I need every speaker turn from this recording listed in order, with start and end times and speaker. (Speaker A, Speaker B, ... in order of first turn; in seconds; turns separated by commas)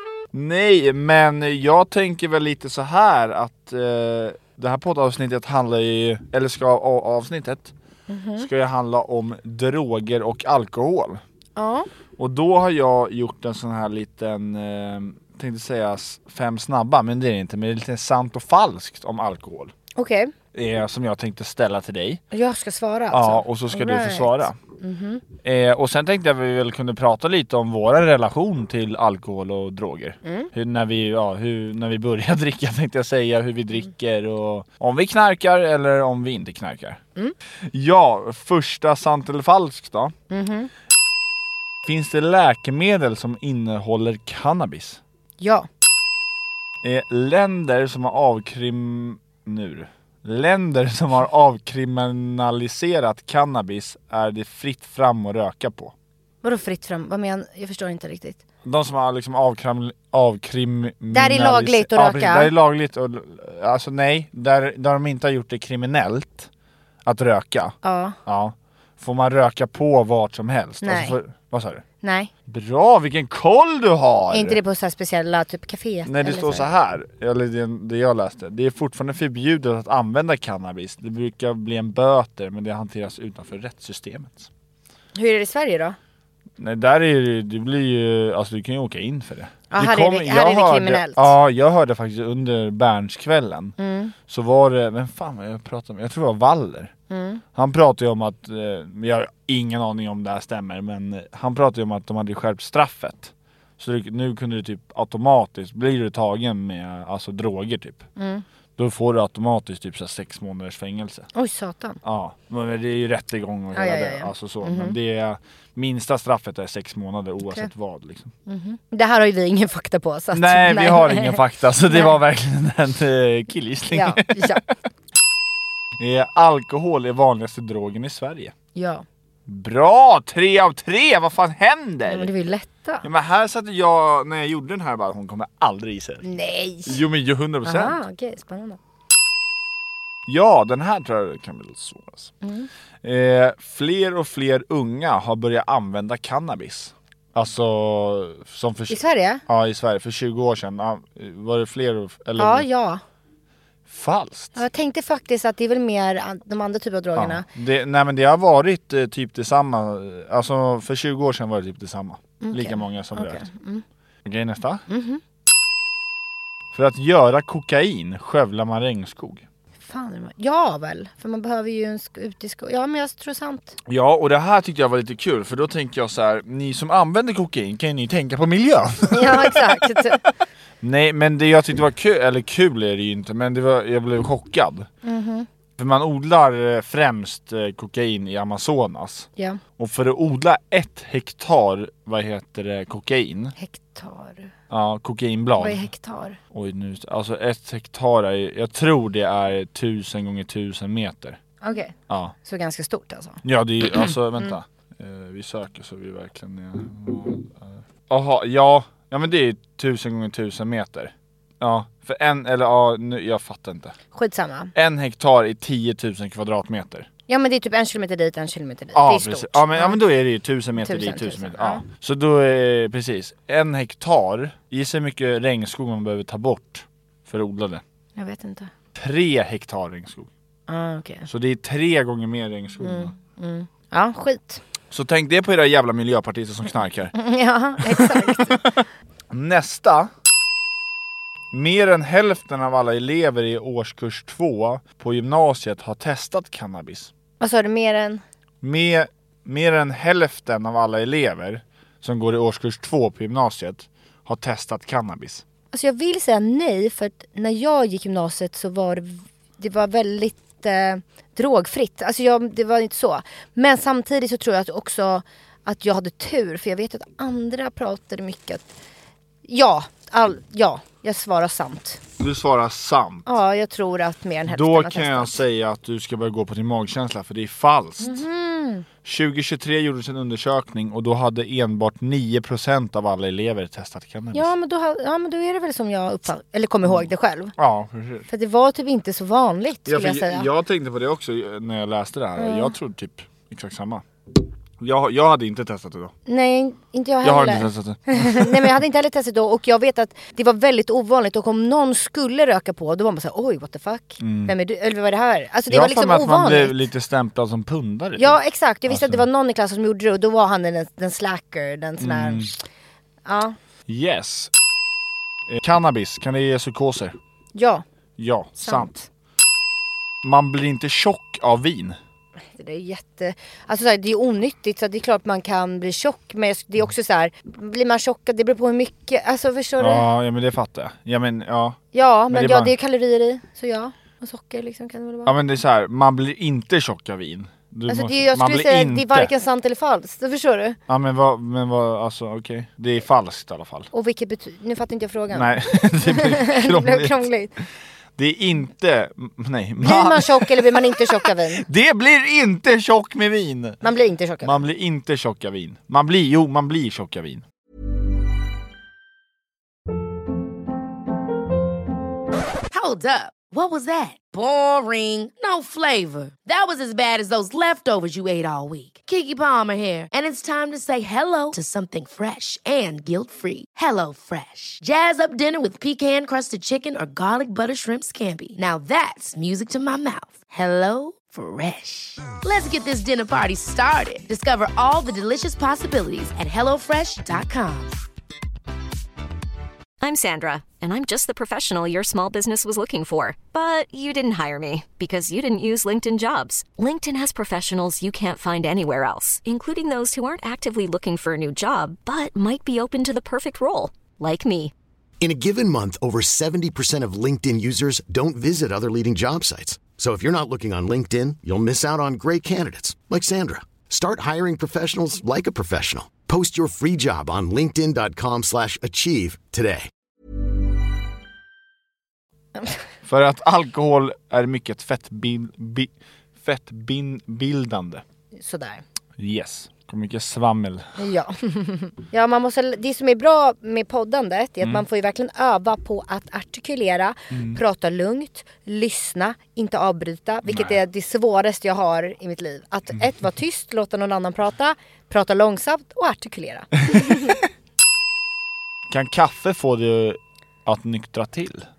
Speaker A: 0.3-7.7, Speaker B: 8.1-8.5, Speaker A: 8.4-11.2, Speaker B: 11.6-11.9, Speaker A: 12.2-19.7, Speaker B: 19.9-20.3, Speaker A: 20.5-22.2, Speaker B: 22.3-25.2, Speaker A: 23.1-24.6, Speaker A: 25.4-37.0, Speaker B: 30.2-30.5, Speaker A: 37.6-40.1, Speaker B: 40.3-40.7, Speaker A: 41.8-45.0, Speaker B: 45.4-45.7, Speaker A: 46.8-55.9, Speaker B: 56.4-58.4, Speaker A: 58.6-66.5, Speaker B: 61.1-62.5, Speaker A: 67.0-71.8, Speaker B: 67.8-68.2, Speaker B: 70.8-71.2, Speaker B: 72.0-72.3, Speaker A: 72.5-74.6, Speaker B: 74.3-76.7, Speaker A: 76.0-84.5, Speaker B: 85.1-86.0, Speaker A: 86.6-93.7, Speaker B: 89.7-91.3, Speaker B: 93.8-94.1, Speaker A: 94.3-96.9, Speaker B: 97.1-97.4, Speaker A: 97.5-108.0, Speaker B: 108.2-108.4, Speaker A: 108.8-111.3, Speaker B: 111.3-112.0, Speaker A: 112.0-118.3, Speaker B: 113.7-115.0, Speaker B: 117.4-117.7, Speaker B: 118.5-122.1, Speaker A: 120.3-124.7, Speaker B: 123.9-124.6, Speaker A: 126.0-128.5, Speaker B: 128.7-129.0, Speaker A: 129.4-132.3, Speaker B: 132.1-133.1, Speaker A: 133.0-136.2, Speaker B: 136.2-137.0, Speaker A: 136.9-138.0, Speaker B: 137.6-138.8, Speaker A: 140.3-142.3, Speaker B: 142.4-142.7, Speaker A: 143.0-152.7, Speaker B: 148.9-149.4, Speaker B: 152.4-153.0, Speaker A: 153.9-154.6, Speaker B: 154.5-157.4, Speaker A: 157.2-163.5, Speaker B: 162.4-163.8, Speaker A: 164.2-164.8, Speaker B: 164.9-165.2, Speaker A: 166.7-169.4, Speaker B: 169.8-173.8, Speaker A: 173.9-180.2, Speaker B: 179.1-180.2, Speaker A: 180.8-184.9, Speaker B: 185.0-185.5, Speaker A: 185.8-193.6, Speaker B: 193.6-194.5, Speaker A: 194.7-195.9, Speaker B: 195.6-196.4, Speaker A: 196.5-201.4, Speaker B: 201.6-203.4, Speaker A: 202.1-202.3, Speaker A: 203.4-213.9, Speaker B: 204.0-204.5, Speaker B: 214.1-214.7, Speaker A: 214.7-217.1, Speaker B: 217.3-220.0, Speaker A: 218.9-227.8, Speaker B: 220.8-221.8, Speaker B: 228.2-228.7, Speaker A: 228.9-230.3, Speaker B: 230.7-231.3, Speaker A: 231.3-233.1, Speaker B: 232.8-234.6, Speaker A: 234.9-237.1, Speaker B: 237.1-238.7, Speaker A: 237.8-240.1, Speaker A: 241.5-247.1, Speaker B: 247.4-248.2, Speaker A: 248.6-255.4, Speaker B: 255.7-268.7, Speaker B: 269.4-272.0, Speaker A: 272.2-273.3, Speaker B: 273.2-275.4, Speaker A: 274.5-278.2, Speaker B: 278.0-278.9, Speaker A: 279.0-284.5, Speaker B: 284.3-287.5, Speaker A: 286.9-288.3, Speaker B: 288.3-290.5, Speaker A: 289.9-296.1, Speaker B: 292.4-292.7, Speaker B: 296.3-306.8, Speaker A: 297.2-298.8, Speaker A: 304.2-304.5, Speaker A: 305.7-309.2, Speaker B: 308.2-312.6, Speaker A: 312.0-312.5, Speaker B: 313.2-313.6, Speaker A: 313.9-314.5, Speaker A: 315.5-317.1, Speaker B: 317.6-317.8, Speaker A: 318.2-319.0, Speaker B: 318.6-319.0, Speaker A: 320.2-322.0, Speaker B: 322.5-330.0, Speaker A: 329.8-331.8, Speaker B: 331.9-335.3, Speaker A: 332.3-332.7, Speaker A: 335.2-339.3, Speaker B: 337.9-340.8, Speaker A: 340.9-343.9, Speaker B: 343.9-347.5, Speaker A: 345.3-347.3, Speaker A: 348.1-353.8, Speaker B: 349.8-351.6, Speaker B: 353.8-354.6, Speaker A: 354.4-357.4, Speaker C: 362.7-388.0, Speaker D: 390.0-404.7, Speaker E: 405.2-419.9, Speaker A: 423.0-428.0, Speaker B: 428.4-428.8, Speaker A: 429.2-431.0, Speaker B: 431.0-447.4, Speaker A: 437.3-437.6, Speaker A: 440.4-440.8, Speaker A: 446.9-447.2, Speaker A: 448.9-451.6